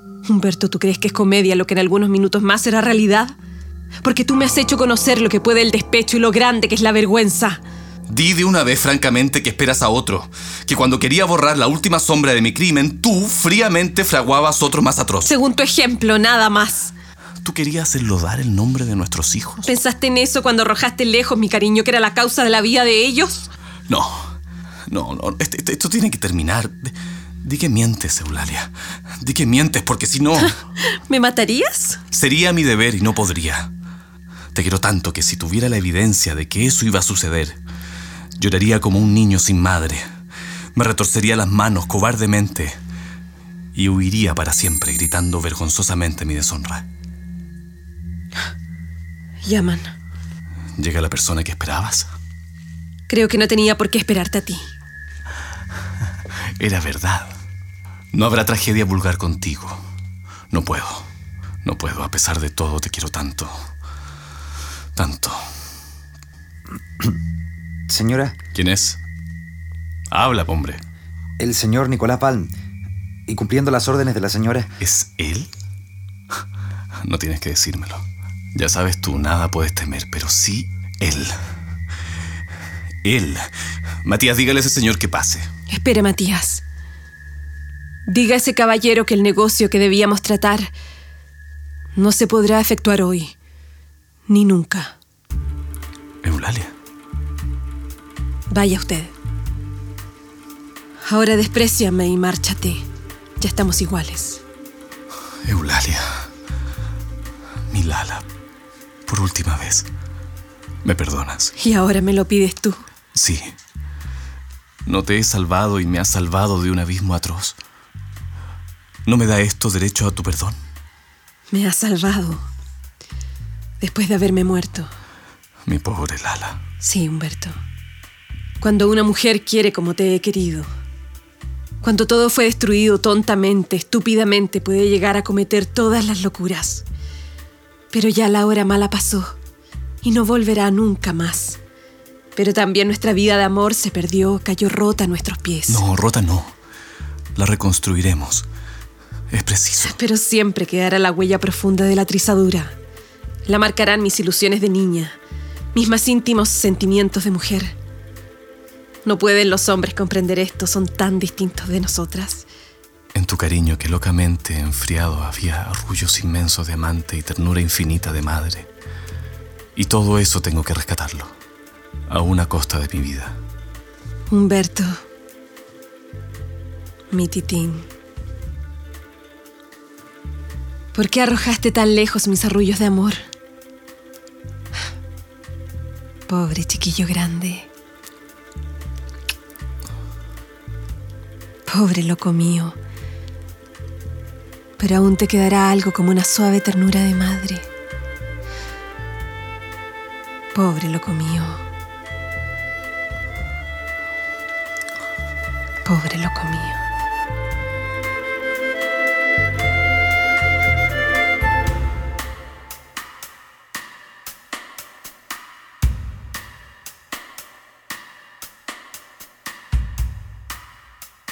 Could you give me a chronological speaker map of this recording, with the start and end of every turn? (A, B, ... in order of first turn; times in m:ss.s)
0:00.2-0:03.3 A
0:04.0-0:07.6 A
0:08.1-0:15.3 B
0:15.2-0:16.9 A
0:17.4-0:19.7 B
0:19.6-0:23.5 A
0:23.9-0:24.3 B
0:24.9-0:30.6 B
0:31.0-0:32.0 A
0:32.1-0:33.7 B
0:34.5-0:37.6 B
0:38.4-0:40.0 B
0:40.7-0:42.8 B
0:43.7-0:46.8 B
0:49.4-0:49.9 A
0:50.8-0:52.1 B
0:53.1-0:54.6 A
0:56.6-0:57.3 B
0:58.1-0:59.8 B
1:00.5-1:01.1 B
1:01.6-1:03.6 B
1:05.0-1:05.4 B
1:07.9-1:08.4 C
1:08.5-1:09.0 B
1:10.1-1:10.8 B
1:11.4-1:12.5 C
1:13.3-1:14.7 C
1:14.8-1:15.5 B
1:17.0-1:21.3 B
1:23.0-1:23.5 B
1:24.0-1:25.5 B
1:25.7-1:26.6 A
1:28.1-1:30.7 A
1:32.0-1:33.3 A
1:34.3-1:34.9 A
1:36.2-1:36.7 B
1:38.5-1:39.1 A
1:41.0-1:42.8 A
1:43.4-1:44.4 A
1:45.4-1:46.1 B
1:47.7-1:48.2 B
1:49.1-1:49.9 B
1:50.8-1:51.5 B
1:51.6-1:52.8 A
1:53.1-1:53.5 B
1:54.8-1:57.6 B
1:59.0-2:00.6 B
2:01.5-2:02.4 A
2:03.8-2:04.9 A
2:05.6-2:06.6 B
2:06.8-2:07.6 A
2:08.6-2:10.7 A
2:11.8-2:16.8 A
2:17.9-2:19.4 A
2:20.0-2:21.6 A
2:22.4-2:25.8 A
2:25.7-2:26.6 B
2:27.3-2:28.4 B
2:29.3-2:30.0 B
2:29.8-2:32.7 A
2:33.4-2:35.2 A
2:35.7-2:37.7 A
2:39.0-2:42.4 A
2:43.1-2:48.7 B
2:49.8-2:51.3 B
2:52.1-2:53.4 B
2:54.3-2:54.9 A
2:57.1-2:57.9 A
3:00.9-3:03.2 A
3:06.3-3:07.6 A
3:11.7-3:12.8 A
3:14.8-3:17.6 A
3:20.5-3:21.6 A
3:25.8-3:26.8 A